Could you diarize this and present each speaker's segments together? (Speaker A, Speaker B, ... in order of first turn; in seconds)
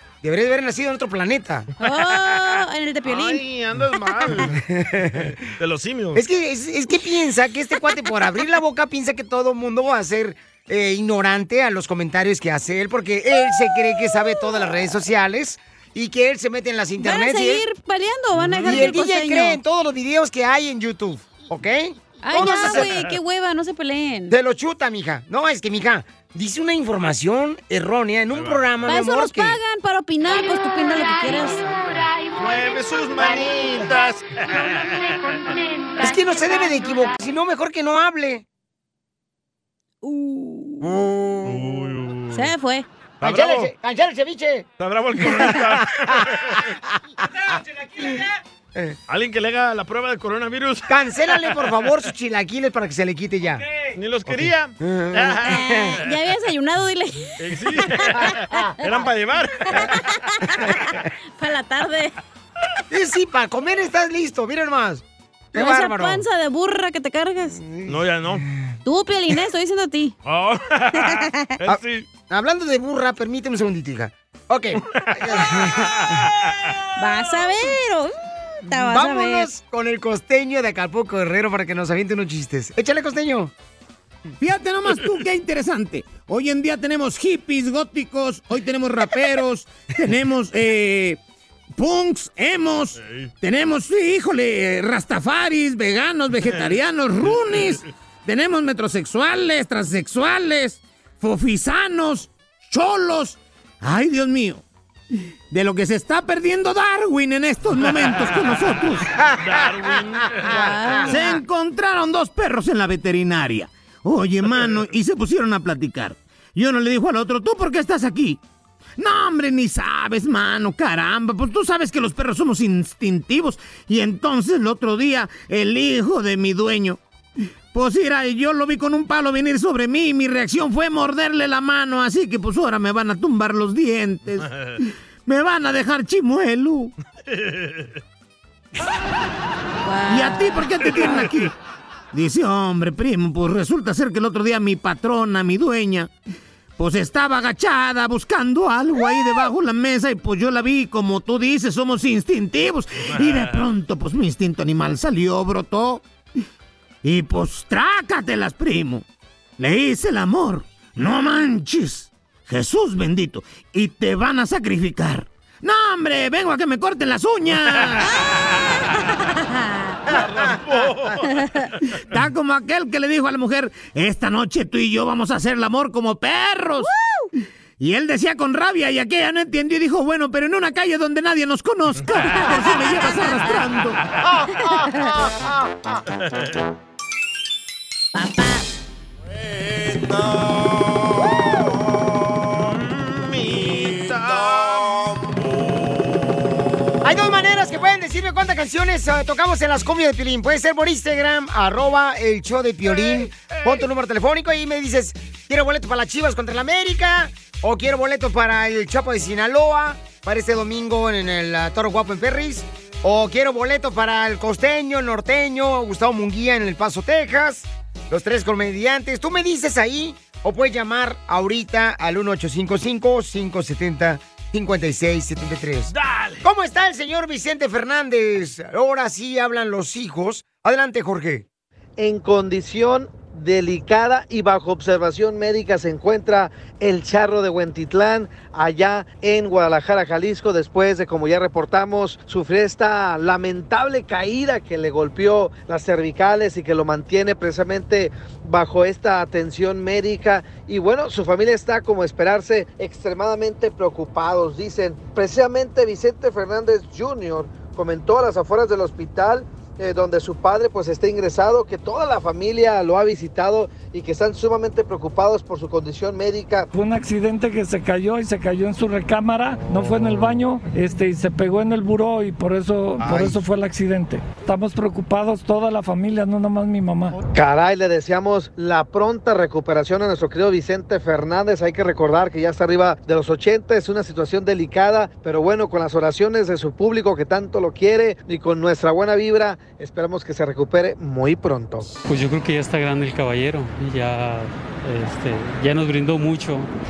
Speaker A: 0.2-1.7, 4.5-5.3, 6.2-17.7, 18.6-22.9, 24.3-29.6, 36.0-38.4, 40.8-41.7, 43.2-44.7, 45.2-45.6, 50.9-53.6, 54.3-56.0, 62.9-65.0, 65.5-66.2, 67.5-68.0, 71.7-76.3, 78.7-83.5, 110.5-111.0, 197.0-231.4
Speaker B: 1.8-3.4, 17.0-19.6, 22.2-24.3, 28.9-31.7, 40.0-40.9, 42.3-42.9, 55.5-58.4, 59.8-60.6, 61.4-62.1, 65.5-67.6, 68.8-70.1, 71.0-71.5, 77.0-78.1, 78.7-79.5, 110.5-111.4, 139.8-141.3, 168.1-168.4, 169.4-170.0, 176.8-177.2, 188.2-188.7
Speaker C: 2.2-4.5, 5.2-6.2, 18.3-19.0, 22.3-23.2, 28.3-28.7, 32.3-35.4, 41.5-42.5, 43.2-43.7, 44.8-46.7, 49.1-51.9, 54.0-56.1, 57.4-60.0, 67.9-68.5, 70.2-72.1, 75.0-76.5, 93.0-93.3, 96.5-96.8, 97.3-97.8, 107.8-108.8, 109.4-111.2, 134.4-134.8, 137.3-138.0, 153.1-153.6, 170.1-171.8, 186.2-186.6, 192.6-195.6, 202.8-203.9, 225.9-226.4
Speaker D: 84.4-91.2, 91.8-104.6, 105.5-109.1, 111.1-118.4, 119.0-127.0, 127.7-136.9, 140.1-141.5, 142.1-146.1, 146.8-156.0, 157.0-159.1, 159.6-168.1, 172.1-176.9, 177.8-184.0
Speaker E: 232.0-266.7, 277.3-291.9
Speaker F: 266.7-277.1
Speaker G: 292.1-296.7